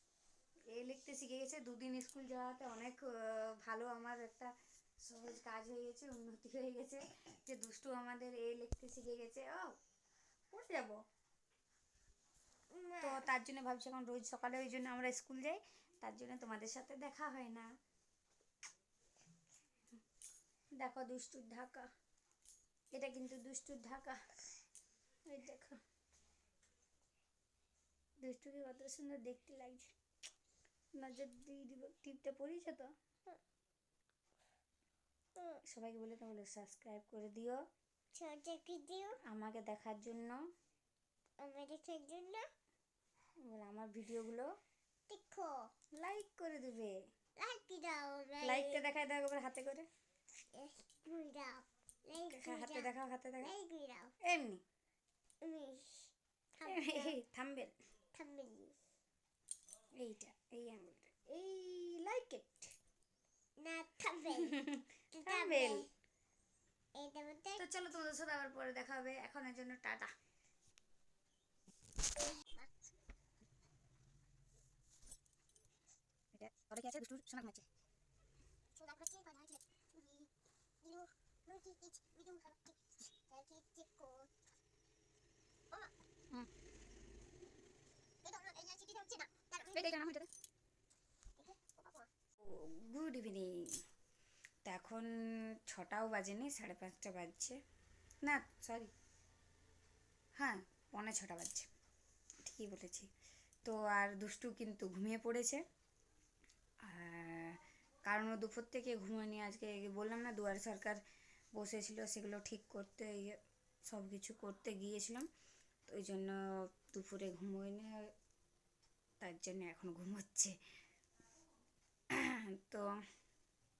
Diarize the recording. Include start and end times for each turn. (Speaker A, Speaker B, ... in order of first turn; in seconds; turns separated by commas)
Speaker A: 0.7-4.5, Speaker A: 5.0-9.8, Speaker A: 10.5-11.0, Speaker B: 12.7-13.3, Speaker A: 13.0-17.7, Speaker A: 20.8-21.9, Speaker A: 22.9-24.2, Speaker A: 25.3-25.8, Speaker A: 28.2-29.9, Speaker A: 31.0-32.9, Speaker A: 35.7-37.6, Speaker B: 38.1-39.2, Speaker A: 39.2-40.4, Speaker B: 41.4-42.5, Speaker A: 43.5-44.5, Speaker B: 45.1-45.7, Speaker A: 46.0-47.0, Speaker B: 47.4-48.8, Speaker A: 48.4-49.9, Speaker B: 50.5-52.9, Speaker A: 52.2-53.5, Speaker B: 53.4-54.1, Speaker A: 54.2-54.6, Speaker B: 55.4-57.1, Speaker A: 56.6-57.7, Speaker B: 58.1-58.7, Speaker A: 60.0-62.7, Speaker B: 63.6-64.6, Speaker A: 64.5-65.9, Speaker B: 65.1-65.9, Speaker B: 66.9-67.6, Speaker A: 67.6-70.1, Speaker A: 76.3-77.7, Speaker B: 78.8-80.3, Speaker B: 80.8-82.8, Speaker B: 83.3-84.3, Speaker B: 88.2-89.8, Speaker A: 89.7-90.3, Speaker B: 91.3-92.1, Speaker A: 92.4-93.8, Speaker A: 94.7-97.6, Speaker A: 98.2-98.9, Speaker A: 100.4-101.7, Speaker A: 102.4-103.1, Speaker A: 103.6-105.6, Speaker A: 106.8-111.0, Speaker A: 111.5-113.4, Speaker A: 113.9-115.2, Speaker A: 115.9-118.1, Speaker A: 119.2-120.5, Speaker A: 122.1-122.9